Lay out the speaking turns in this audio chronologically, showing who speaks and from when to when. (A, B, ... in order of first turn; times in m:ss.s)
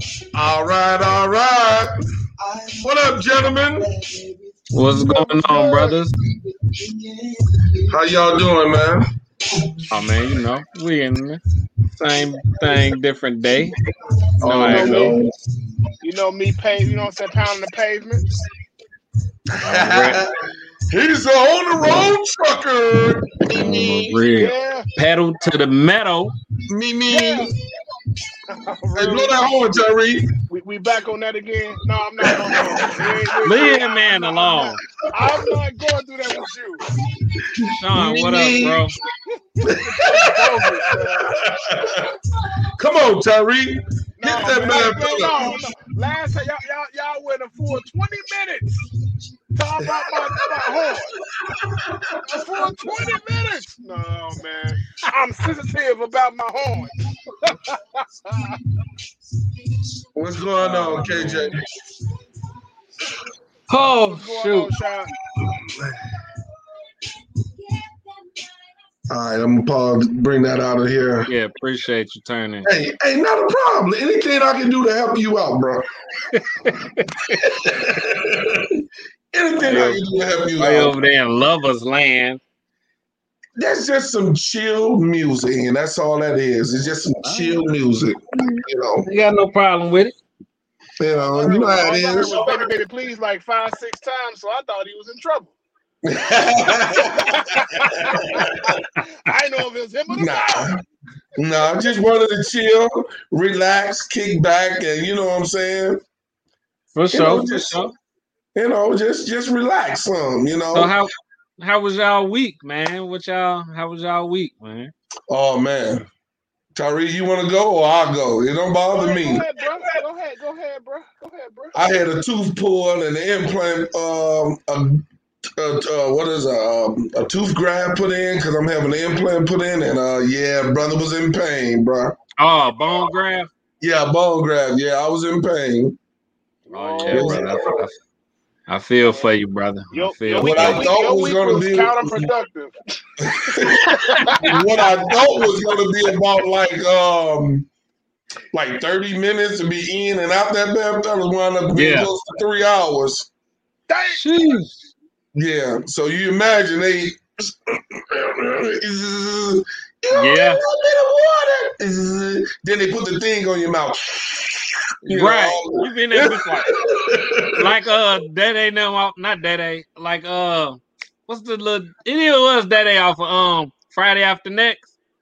0:00.3-0:01.9 A
0:02.6-0:04.2 A
0:04.7-0:06.2 B
0:05.3-0:05.9 A
0:07.8-0:09.1 A
0:09.9-0:11.4 B
0:12.0-0:13.8 B
0:14.4-0:15.3 A
0:14.4-0:15.2 B
0:14.6-0:15.2 C
0:16.0-0:18.2 C
0:19.6-0:20.3 A
0:19.6-0:20.2 B
0:20.9-0:24.2 A
0:23.5-0:26.4 B
0:24.4-0:24.9 C
0:26.7-0:27.5 A
0:27.1-0:27.5 C
0:28.5-0:29.4 C
0:29.0-0:30.3 A
0:30.5-0:36.8 C
0:32.2-0:33.8 A
0:33.4-0:34.8 B
0:35.2-0:35.5 A
0:36.9-0:38.9 A
0:37.8-0:39.0 B
0:39.5-0:41.4 C
0:39.6-0:45.6 A
0:44.2-0:48.8 C
0:49.6-0:51.2 C
0:49.8-0:53.2 A
0:52.3-0:58.6 C
1:00.1-1:01.7 A
1:00.6-1:01.6 B
1:03.7-1:04.7 B
1:04.1-1:05.1 C
1:05.4-1:06.1 A
1:09.1-1:11.3 A
1:11.3-1:12.7 B
1:12.6-1:15.9 A
1:16.3-1:17.2 B
1:17.3-1:21.0 A
1:19.6-1:20.0 B
1:20.6-1:22.4 B
1:23.6-1:29.1 A
1:27.2-1:27.6 B
1:29.1-1:30.2 B
1:31.0-1:32.7 A
1:31.3-1:35.6 C
1:36.0-1:38.8 A
1:37.0-1:40.8 C
1:40.1-1:40.8 A
1:41.4-1:46.0 A
1:41.6-1:42.0 C
1:46.9-1:47.9 B
1:47.1-1:47.8 A
1:48.6-1:50.9 A
1:50.7-1:54.9 B
1:55.3-1:56.1 A
1:56.8-1:59.5 A
1:58.9-2:01.8 C
2:01.7-2:05.1 A
2:05.6-2:12.2 A
2:12.4-2:13.5 B
2:13.8-2:16.0 A
2:16.7-2:17.6 C
2:16.7-2:17.9 B
2:17.1-2:17.8 A
2:18.7-2:20.9 B
2:19.9-2:24.6 C
2:20.4-2:22.3 A
2:23.2-2:27.7 A
2:24.2-2:24.6 B
2:28.5-2:33.3 A
2:31.7-2:32.1 B
2:33.9-2:34.2 C
2:34.2-2:34.9 B
2:35.4-2:47.7 A
2:40.1-2:40.6 B
2:45.1-2:46.7 B
2:47.5-2:54.9 B